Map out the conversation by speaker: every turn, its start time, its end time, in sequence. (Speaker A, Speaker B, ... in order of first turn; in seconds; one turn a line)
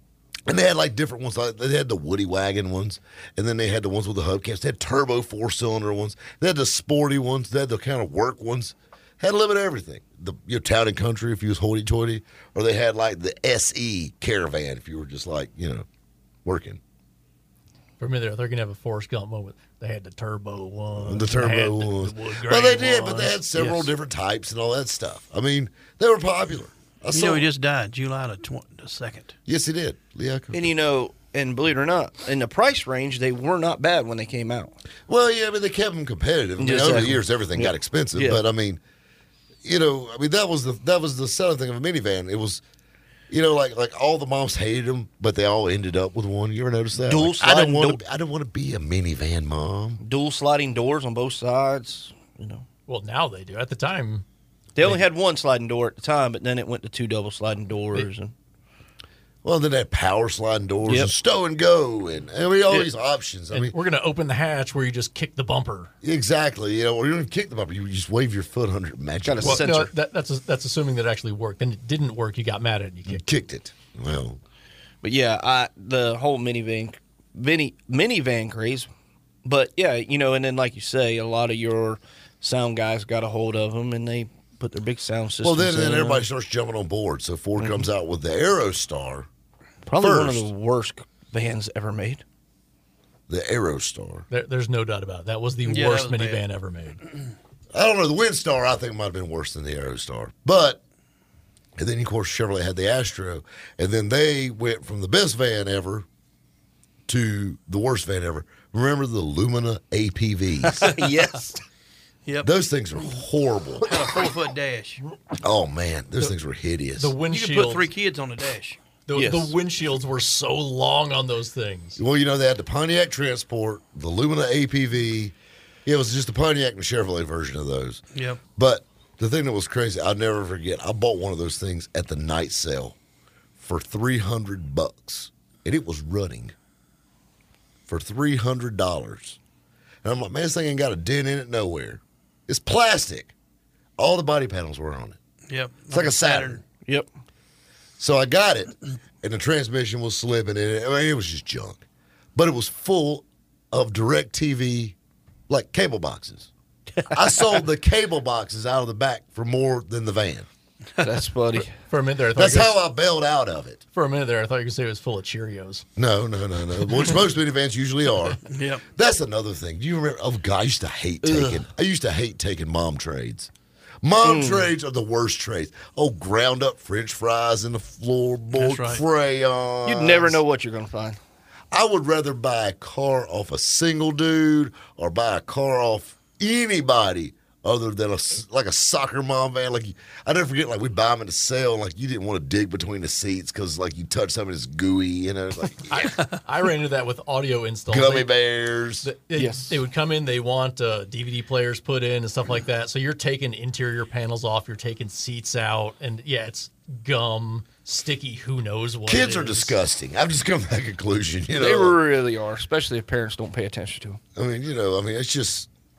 Speaker A: 0.5-15.8
Speaker A: 16.4-16.8
Speaker B: 18.0-23.4
Speaker A: 21.0-27.5
Speaker C: 23.6-23.9
Speaker D: 27.1-29.3
Speaker A: 29.5-30.7
Speaker C: 30.5-34.8
Speaker A: 35.1-38.8
Speaker C: 36.6-38.4
Speaker A: 39.6-42.6
Speaker A: 43.3-50.0
Speaker C: 47.0-48.0
Speaker C: 50.0-52.6
Speaker B: 52.9-54.2
Speaker C: 54.7-58.3
Speaker A: 59.4-63.7
Speaker C: 60.9-61.1
Speaker B: 63.5-65.9
Speaker A: 66.0-69.8
Speaker C: 69.2-69.9
Speaker B: 69.4-73.2
Speaker A: 73.0-74.4
Speaker C: 75.0-78.9
Speaker C: 79.4-86.2
Speaker A: 85.4-89.3
Speaker C: 87.6-87.9
Speaker C: 89.8-92.2
Speaker A: 90.0-90.5
Speaker A: 93.3-94.3
Speaker B: 94.3-97.0
Speaker D: 95.7-96.4
Speaker A: 97.7-100.8
Speaker A: 101.8-106.1
Speaker A: 107.1-111.0
Speaker C: 110.8-111.6
Speaker A: 112.4-114.1
Speaker D: 113.8-115.0
Speaker A: 115.4-117.1
Speaker B: 117.0-117.9
Speaker D: 117.3-118.8
Speaker B: 119.1-122.0
Speaker C: 119.1-119.5
Speaker A: 122.0-125.3
Speaker A: 125.8-128.0
Speaker A: 128.6-133.0
Speaker A: 133.6-136.5
Speaker A: 137.9-139.4
Speaker A: 140.0-143.3
Speaker A: 144.0-145.2
Speaker D: 145.5-146.6
Speaker A: 145.9-146.6
Speaker A: 148.0-154.9
Speaker A: 155.5-156.5
Speaker A: 157.1-160.5
Speaker C: 161.0-161.8
Speaker B: 161.7-162.8
Speaker A: 162.3-163.8
Speaker B: 163.9-165.8
Speaker A: 165.9-173.5
Speaker D: 168.5-168.8
Speaker C: 171.2-171.6
Speaker A: 174.0-180.4
Speaker C: 174.2-174.7
Speaker D: 178.6-179.0
Speaker C: 179.8-181.2
Speaker A: 181.7-196.2
Speaker B: 195.9-198.3
Speaker A: 197.9-199.1
Speaker B: 199.0-209.8
Speaker C: 199.3-199.8
Speaker A: 209.1-212.0
Speaker C: 211.6-214.2
Speaker A: 214.3-215.7